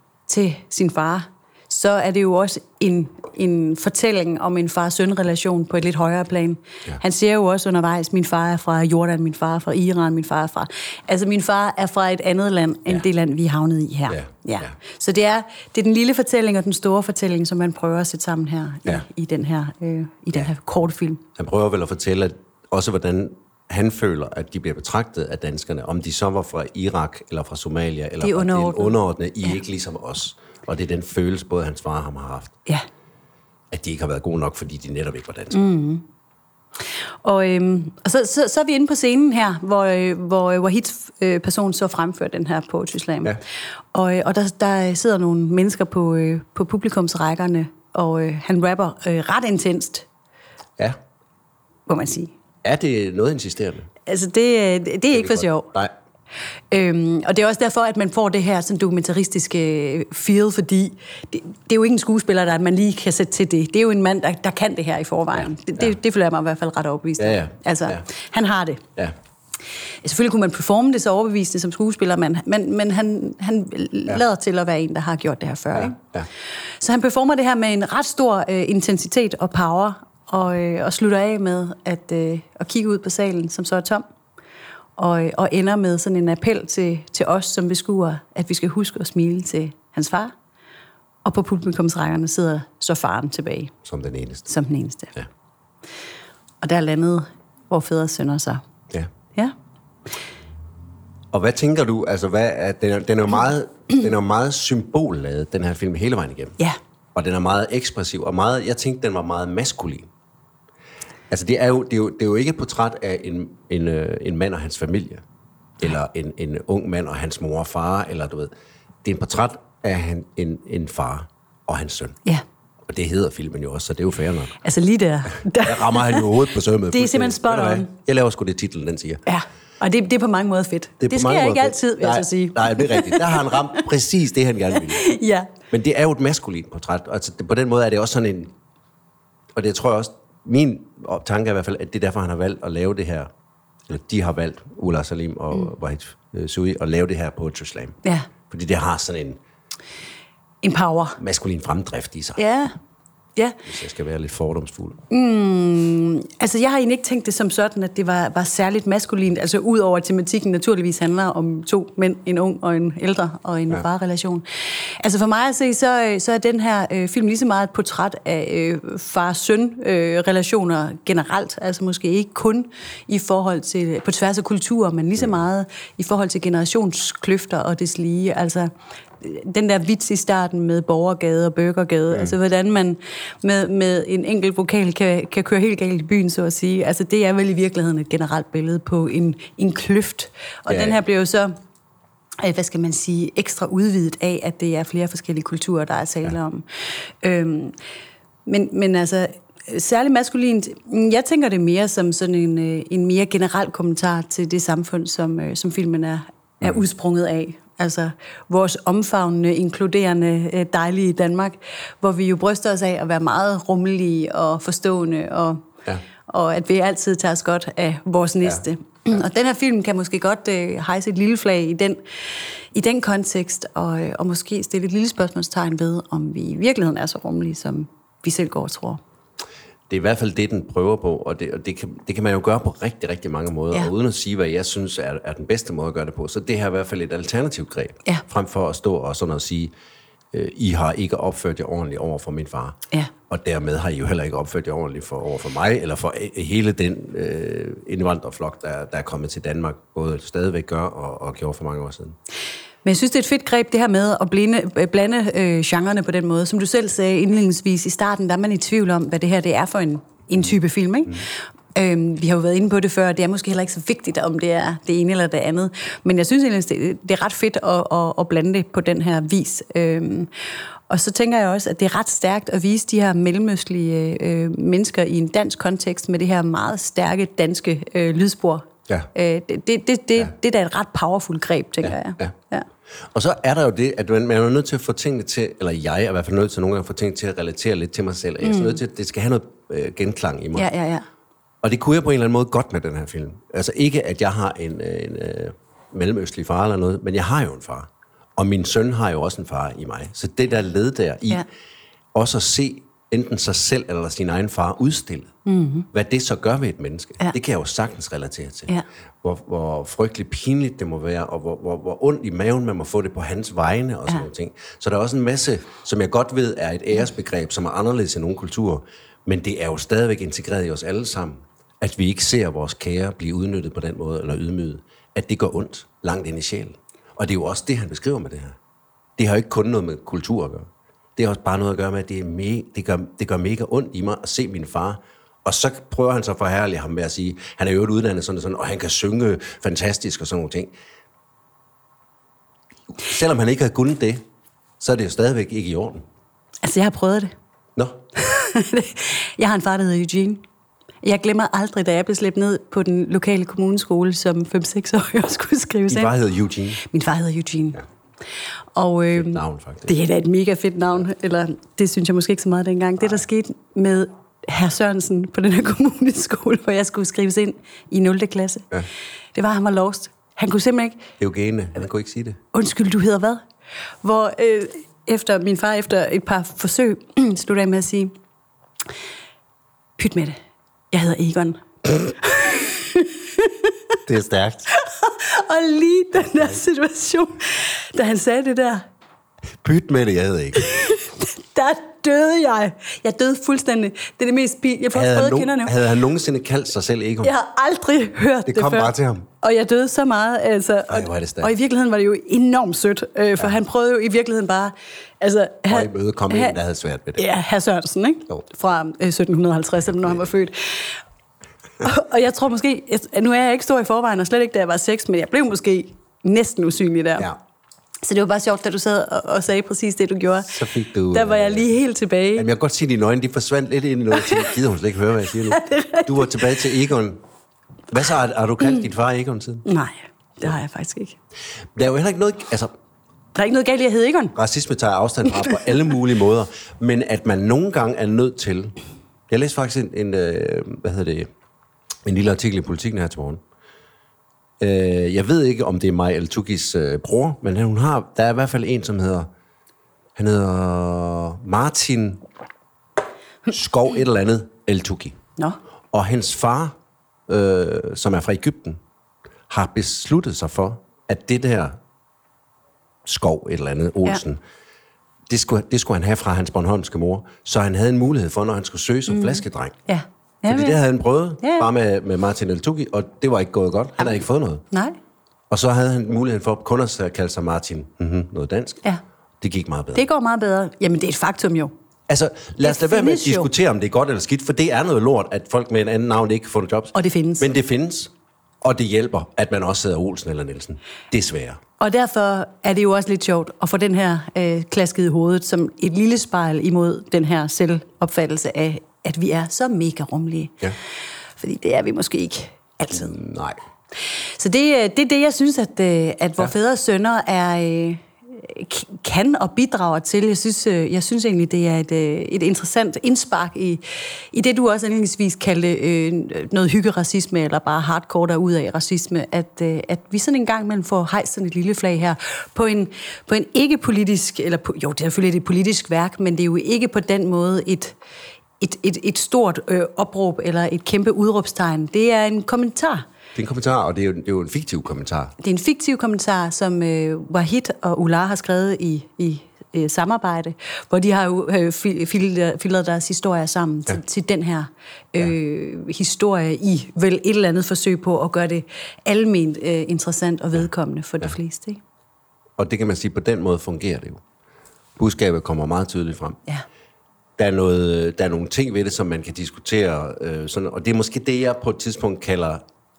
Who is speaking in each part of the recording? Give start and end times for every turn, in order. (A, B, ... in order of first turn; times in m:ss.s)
0:00.3-0:21.2 A
0:14.1-0:14.7 B
0:21.4-0:32.5 B
0:28.2-0:29.0 A
0:33.7-0:35.6 B
0:35.5-0:36.0 A
0:37.2-0:43.4 A
0:43.9-0:50.1 A
0:51.9-0:52.3 A
0:52.6-0:53.9 B
0:54.0-0:55.7 A
0:55.1-0:55.9 B
0:56.7-1:08.8 A
1:05.4-1:05.9 B
1:07.2-1:08.0 B
1:10.0-1:16.0 A
1:15.7-1:16.3 B
1:16.8-1:24.0 A
1:25.0-1:30.3 A
1:31.2-1:33.7 A
1:33.8-1:34.5 B
1:34.5-1:35.2 A
1:36.6-1:38.6 A
1:41.3-1:46.6 B
1:47.1-1:50.1 B
1:51.3-1:55.2 B
1:55.8-1:58.5 B
1:59.0-2:02.2 B
2:02.9-2:04.6 B
2:04.6-2:06.3 A
2:05.6-2:09.2 B
2:06.9-2:07.9 A
2:09.2-2:13.6 A
2:11.0-2:15.0 B
2:14.8-2:15.5 A
2:15.7-2:18.5 B
2:19.5-2:23.3 B
2:23.9-2:28.0 B
2:28.5-2:29.4 B
2:30.6-2:31.2 A
2:31.2-2:32.4 B
2:32.4-2:32.7 A
2:33.6-2:35.0 B
2:35.1-3:11.5 A
3:10.7-3:11.0 B
3:12.4-3:16.6 A
3:17.2-3:17.7 A
3:18.4-3:35.7 A
3:36.2-3:42.0 A
3:42.7-3:49.0 A
3:49.9-3:59.7 B
4:00.3-4:12.2 B
4:12.8-4:30.3 A
4:30.9-4:42.6 A
4:41.8-4:42.3 B
4:43.1-4:50.7 B
4:48.4-4:48.8 A
4:50.5-4:51.0 A
4:51.6-5:01.4 B
5:02.1-5:05.3 B
5:05.4-5:05.9 A
5:05.9-5:08.7 B
5:09.2-5:28.6 B
5:29.2-5:40.7 B
5:43.0-5:44.2 B
5:44.8-5:46.0 B
5:46.6-5:47.3 A
5:47.8-5:48.0 B
5:48.2-5:50.4 A
5:51.0-5:56.1 A
5:55.9-5:56.8 B
5:56.8-5:57.8 A
5:58.7-6:08.7 A
5:59.1-5:59.9 B
6:09.3-6:11.1 A
6:11.2-6:12.4 B
6:12.5-6:13.4 A
6:14.0-6:18.1 A
6:20.0-6:20.4 A
6:20.9-6:23.7 A
6:24.1-6:24.7 B
6:24.7-6:28.8 A
6:29.6-6:30.6 B
6:30.6-6:35.7 A
6:34.9-6:37.3 B
6:37.2-6:46.6 A
6:38.5-6:39.3 B
6:40.9-6:41.5 B
6:45.7-6:47.2 B
6:47.2-6:51.0 A
6:51.8-6:57.3 A
6:58.0-7:00.6 A
7:00.5-7:01.6 B
7:01.1-7:02.5 A
7:02.4-7:07.2 B
7:05.5-7:06.4 A
7:07.9-7:09.6 B
7:09.6-7:11.2 A
7:11.7-7:12.7 B
7:13.3-7:14.3 A
7:14.3-7:18.8 B
7:19.3-7:21.3 B
7:22.0-7:23.4 B
7:24.6-7:29.3 B
7:30.2-7:32.2 B
7:33.5-7:35.2 B
7:35.9-7:36.7 B
7:37.3-7:38.8 B
7:39.5-7:41.8 B
7:43.0-7:44.4 B
7:45.3-7:49.8 B
7:49.1-7:50.8 A
7:50.5-7:54.6 B
7:51.4-7:51.7 A
7:54.7-7:55.0 A
7:55.5-7:58.8 B
7:59.4-8:00.0 B
7:59.9-8:01.7 A
8:02.1-8:08.1 B
8:02.6-8:03.5 A
8:06.9-8:07.5 A
8:08.6-8:11.6 B
8:11.8-8:20.6 A
8:21.4-8:23.2 A
8:22.9-8:23.6 B
8:24.4-8:48.0 A
8:48.6-8:53.0 A
8:53.3-8:55.3 B
8:55.4-9:11.8 A
9:12.6-9:14.2 B
9:15.0-9:16.4 B
9:17.4-9:22.6 B